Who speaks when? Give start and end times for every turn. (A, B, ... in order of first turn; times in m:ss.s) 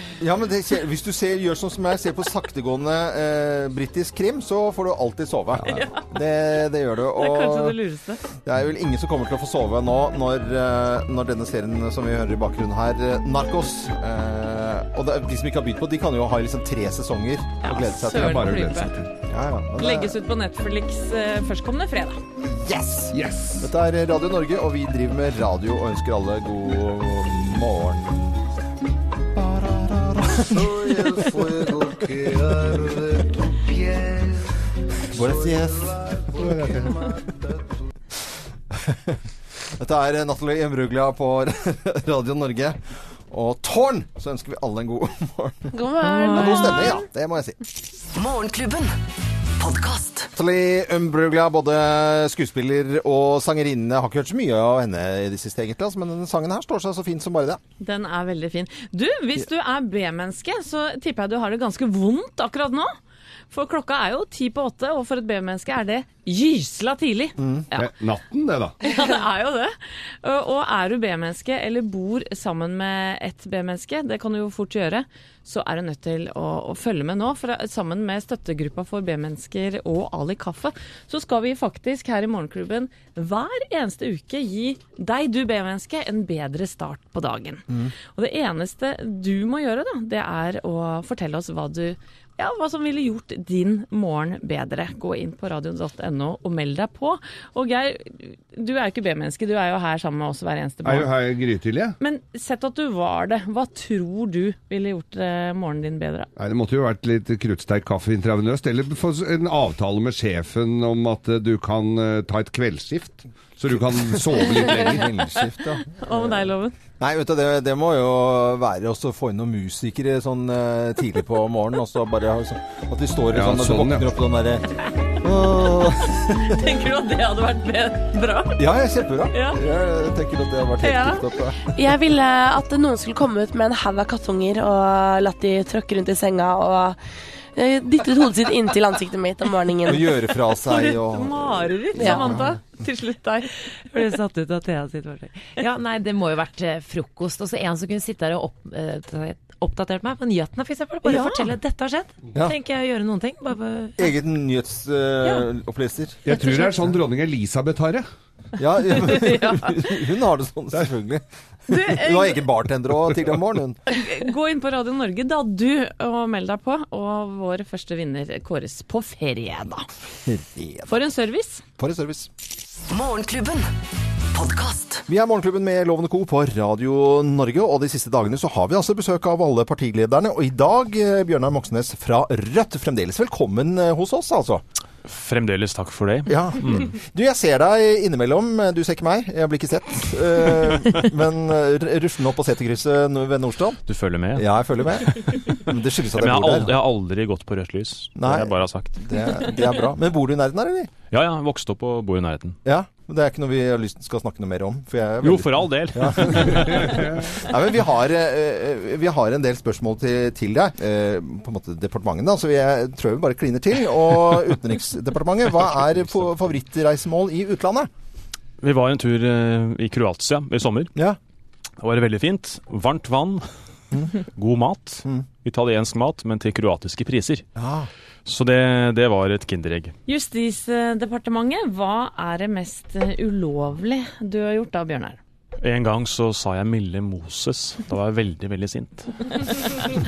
0:00.2-0:07.8 A
0:05.6-0:06.1 B
0:07.1-0:08.2 B
0:08.4-0:18.6 A
0:17.6-0:19.0 B
0:18.1-0:19.1 C
0:19.2-0:20.1 A
0:19.8-0:22.2 B
0:22.4-0:28.4 A
0:23.1-0:23.7 C
0:29.3-0:33.2 A
0:35.1-0:36.5 A
0:36.4-0:37.0 C
0:38.7-0:39.2 A
0:39.8-0:42.8 A
0:43.3-0:47.6 A
0:45.7-0:46.9 D
0:46.0-0:47.0 B
0:48.1-0:48.9 E
0:49.6-0:50.3 E
0:50.3-0:57.6 A
0:57.8-1:02.9 B
1:03.5-1:07.9 B
1:07.4-1:07.7 A
1:07.7-1:08.8 C
1:08.8-1:41.1 B
1:40.8-1:42.0 C
1:42.0-1:46.3 B
1:46.4-1:55.1 C
1:53.8-1:56.4 A
1:55.9-1:56.8 B
1:57.0-2:06.5 A
2:03.3-2:04.1 C
2:06.3-2:08.6 B
2:08.6-2:11.6 A
2:09.3-2:09.6 B
2:10.8-2:11.2 B
2:11.8-2:17.0 D
2:17.5-2:20.0 D
2:19.8-2:22.6 A
2:20.5-2:23.5 B
2:23.9-2:34.1 F
2:31.0-2:31.5 B
2:34.0-2:36.2 A
2:36.2-2:38.0 C
2:36.3-2:36.7 B
2:38.6-2:43.8 A
2:38.9-2:40.0 B
2:41.7-2:42.5 B
2:43.9-2:49.9 B
2:50.2-2:51.0 A
2:50.9-2:51.6 B
2:51.8-2:52.3 A
2:52.9-2:53.7 E
2:54.3-2:55.0 E
2:55.1-3:04.6 A
3:05.0-3:06.9 G
3:06.3-3:13.8 A
3:13.9-3:15.6 G
3:14.3-3:16.7 A
3:16.1-3:19.0 G
3:18.2-3:20.9 A
3:21.1-3:22.6 G
3:22.6-3:37.9 A
3:25.2-3:27.1 G
3:26.5-3:27.3 C
3:38.6-3:40.9 G
3:41.8-3:43.4 G
3:44.1-3:47.4 G
3:47.6-3:47.9 A
3:48.2-3:49.9 G
3:50.1-3:55.2 B
3:55.6-3:59.5 G